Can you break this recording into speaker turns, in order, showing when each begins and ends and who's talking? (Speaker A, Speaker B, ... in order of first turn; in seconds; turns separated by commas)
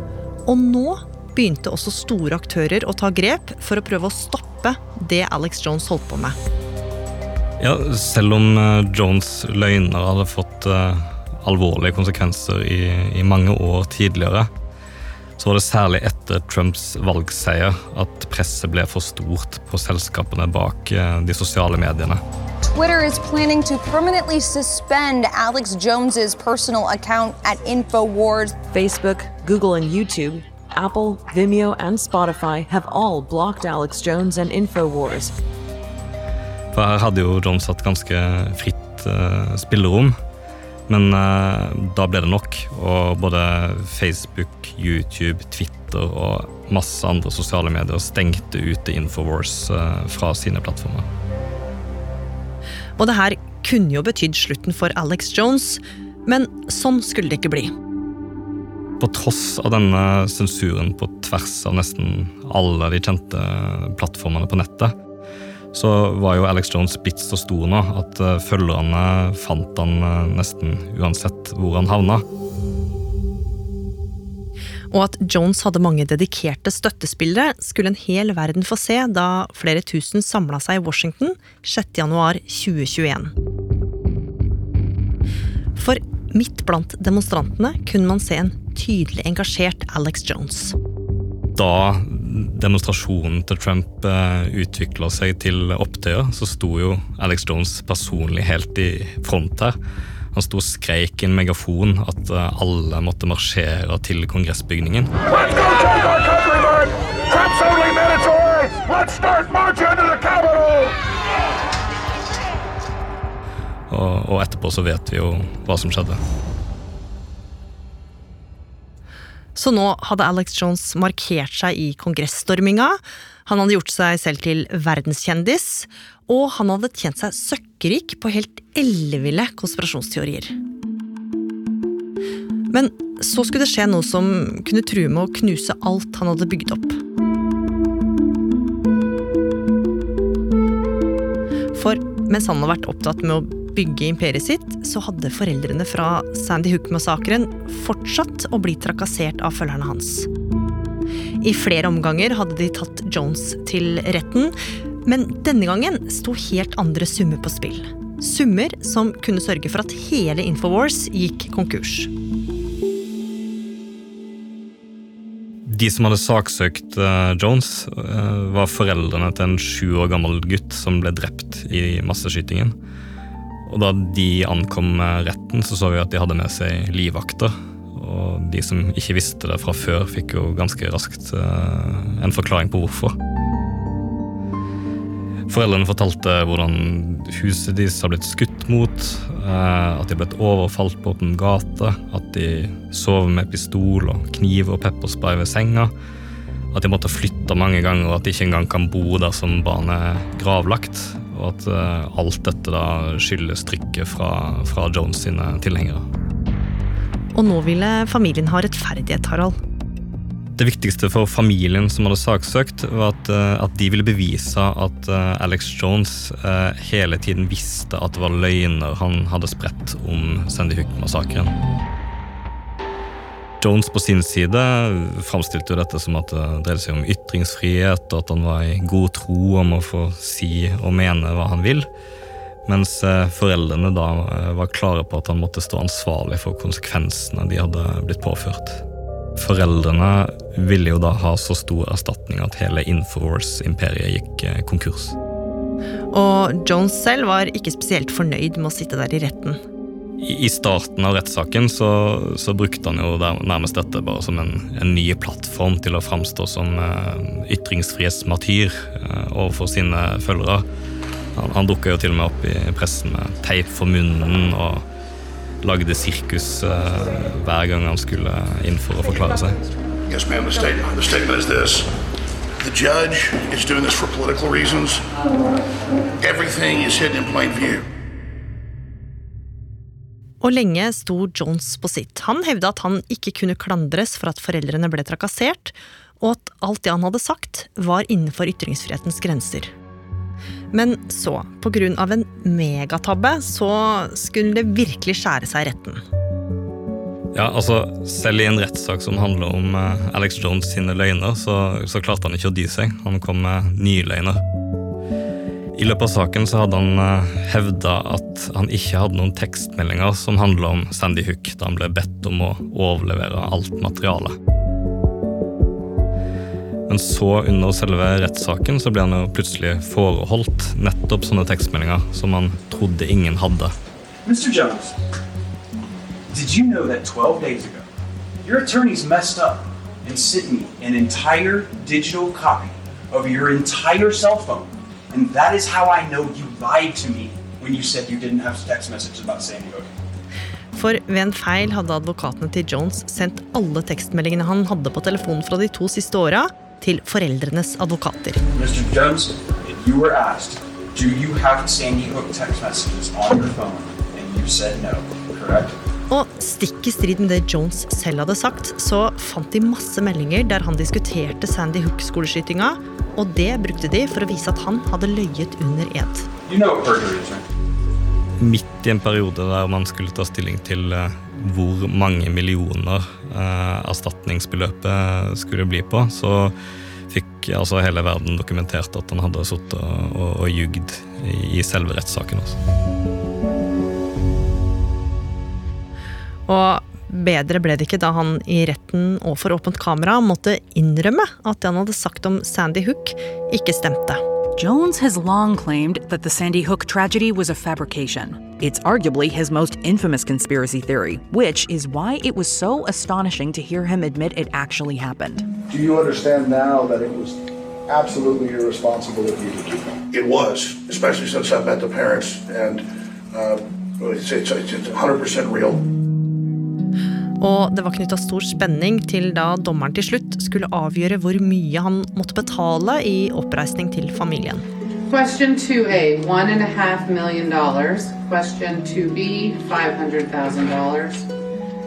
Speaker A: 0.5-6.4, Speaker B: 7.6-14.5, Speaker B: 15.4-22.2, Speaker C: 22.6-28.6, Speaker D: 28.6-35.4, Speaker B: 36.7-40.2, Speaker B: 40.9-51.1, Speaker A: 53.0-57.7, Speaker B: 59.0-65.0, Speaker B: 65.7-72.2, Speaker A: 74.9-83.3, Speaker A: 85.8-90.8, Speaker B: 91.6-99.8, Speaker B: 100.3-105.1, Speaker E: 105.3-110.9, Speaker B: 113.9-116.2, Speaker A: 119.5-130.6, Speaker A: 132.7-137.0, Speaker A: 141.8-150.3, Speaker A: 151.4-162.1, Speaker B: 165.7-172.8, Speaker B: 173.7-183.2, Speaker B: 185.5-195.9, Speaker B: 196.7-206.1, Speaker A: 207.3-209.6, Speaker B: 210.6-221.6, Speaker B: 223.6-231.9, Speaker B: 232.7-238.8, Speaker B: 239.4-245.2, Speaker A: 246.1-249.6, Speaker B: 250.2-260.7, Speaker B: 261.3-264.9, Speaker B: 265.6-269.6, Speaker E: 270.1-271.9, Speaker E: 272.6-275.0, Speaker E: 276.2-277.8, Speaker A: 280.4-289.7, Speaker A: 290.7-296.0, Speaker B: 297.3-304.4, Speaker B: 305.7-314.4, Speaker B: 316.9-323.7, Speaker F: 324.2-325.0, Speaker F: 326.3-327.9, Speaker F: 328.4-339.9, Speaker A: 340.8-348.4, Speaker F: 348.6-355.7, Speaker A: 356.1-366.3, Speaker F: 366.5-367.4, Speaker B: 368.4-376.6, Speaker B: 377.1-382.6, Speaker A: 386.5-394.2, Speaker G: 394.6-405.5, Speaker H: 405.7-407.4, Speaker H: 407.9-409.9, Speaker E: 410.1-415.8, Speaker A: 417.4-424.6, Speaker I: 425.1-431.2